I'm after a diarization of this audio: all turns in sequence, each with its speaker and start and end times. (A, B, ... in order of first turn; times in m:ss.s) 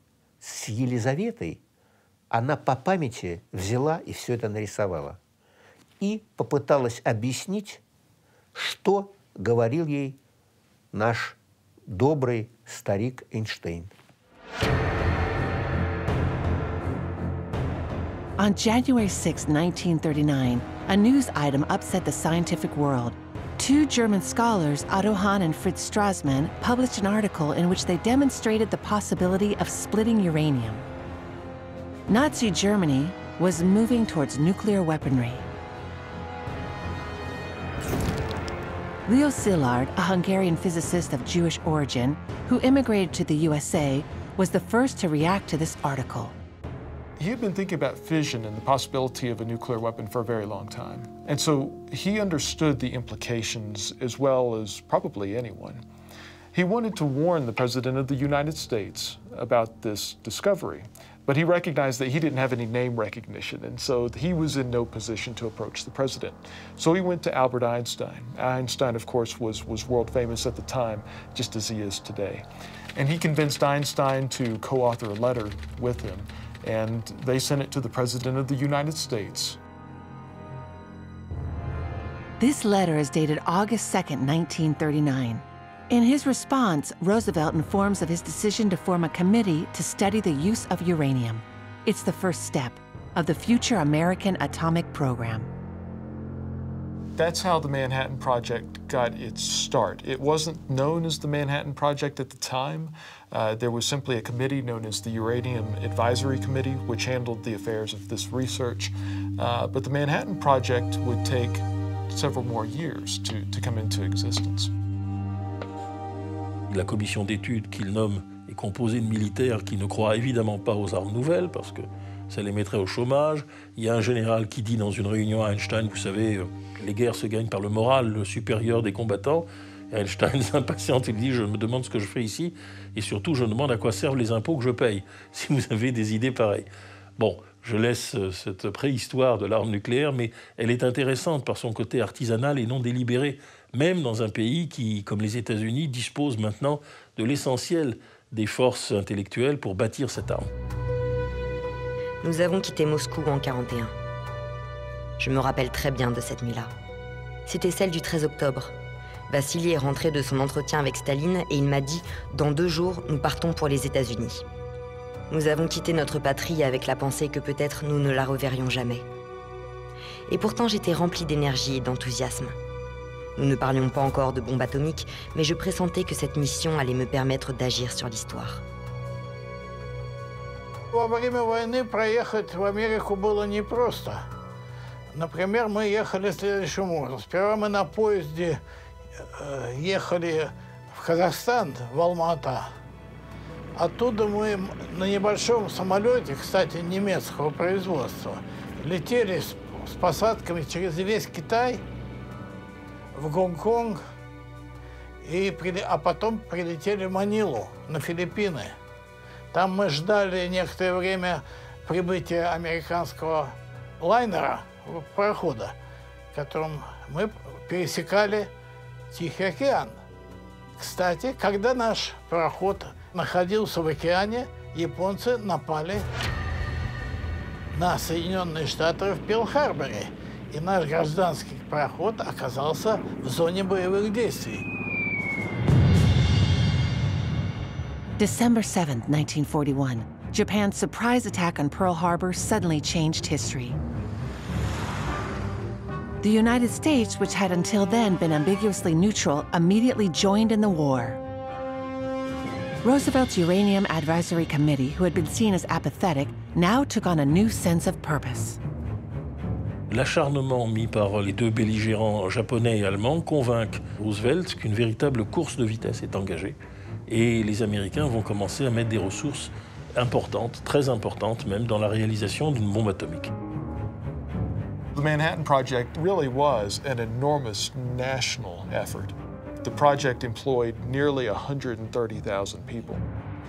0:00.4-0:01.6 A
0:02.3-0:05.2 A
0:06.0-0:07.8 A
0:08.5-0:10.2 A
0:10.9-0:13.9 A
0:18.4-0:30.8 B
0:32.1-0:35.5 B
0:39.0-0:46.4 B
0:47.2-0:55.8 C
0:56.5-1:12.4 C
1:13.0-1:19.6 C
1:22.4-1:35.5 B
1:37.2-1:54.7 C
1:56.7-2:30.5 D
2:32.2-2:33.9 E
2:35.2-2:36.7 E
2:37.5-2:38.7 E
2:39.3-2:44.4 E
2:45.3-2:49.0 E
2:50.3-2:52.6 E
2:53.4-2:58.6 E
3:00.9-3:04.2 F
3:05.1-3:08.6 F
3:09.3-3:12.7 F
3:13.8-3:21.8 F
3:23.1-3:24.0 F
3:25.2-3:28.8 F
3:29.5-3:35.8 F
3:36.3-3:38.5 F
3:39.1-3:40.0 F
3:40.8-3:46.0 F
3:47.7-3:54.7 F
3:58.2-4:03.8 B
4:06.2-4:11.2 B
4:12.8-4:18.6 B
4:19.9-4:33.3 D
4:34.9-4:43.0 C